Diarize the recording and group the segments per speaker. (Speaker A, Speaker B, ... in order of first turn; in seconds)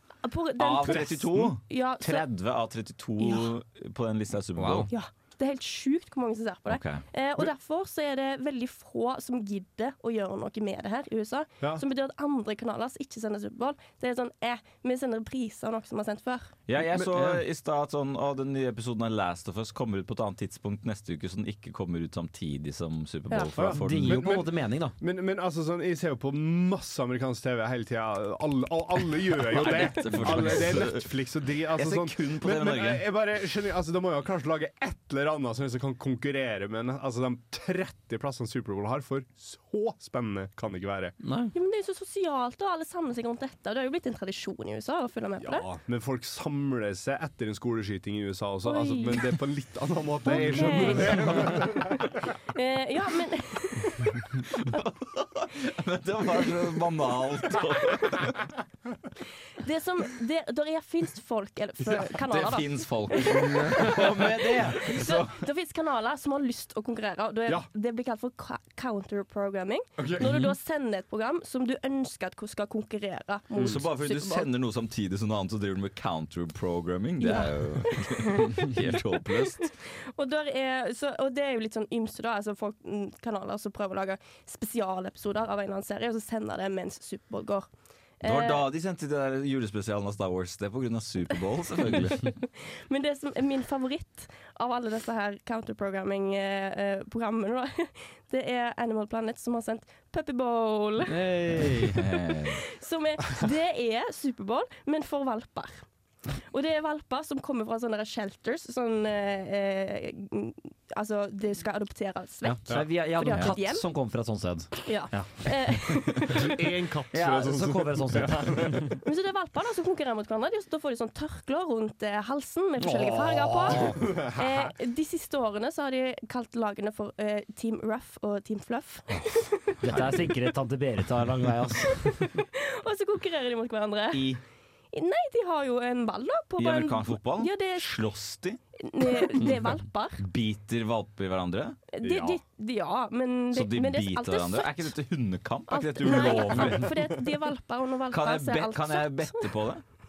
Speaker A: 0.2-2.2, 3.2-3.5, 4.9-16.5, 23.3-23.6, 41.5-45.7, 48.6-49.3, 50.2-54.4, 59.6-74.5, 77.2-87.7, 88.2-88.6, 91.8-105.9, 106.4-113.9, 114.8-116.6, 119.0-130.3, 131.9-134.4, 134.9-138.0, 138.8-140.2, 141.9-144.9, 145.7-149.5
Speaker B: 0.6-4.9, 6.7-7.0, 16.7-24.2, 29.5-31.1, 31.8-33.0, 54.5-58.5, 62.0-65.3, 73.6-79.7, 88.2-92.3, 102.0-102.6, 134.1-134.4, 136.6-138.6, 139.1-142.4, 143.5-147.1, 148.1-149.8
Speaker C: 4.6-4.9, 23.7-24.9, 41.2-41.5, 101.1-102.0, 112.4-116.0, 117.1-119.0, 122.8-124.0, 129.8-132.2
Speaker D: 16.8-17.4, 23.6-24.5, 25.0-41.2, 45.4-52.2, 70.0-70.4, 116.3-118.9, 123.8-124.7, 146.5-146.9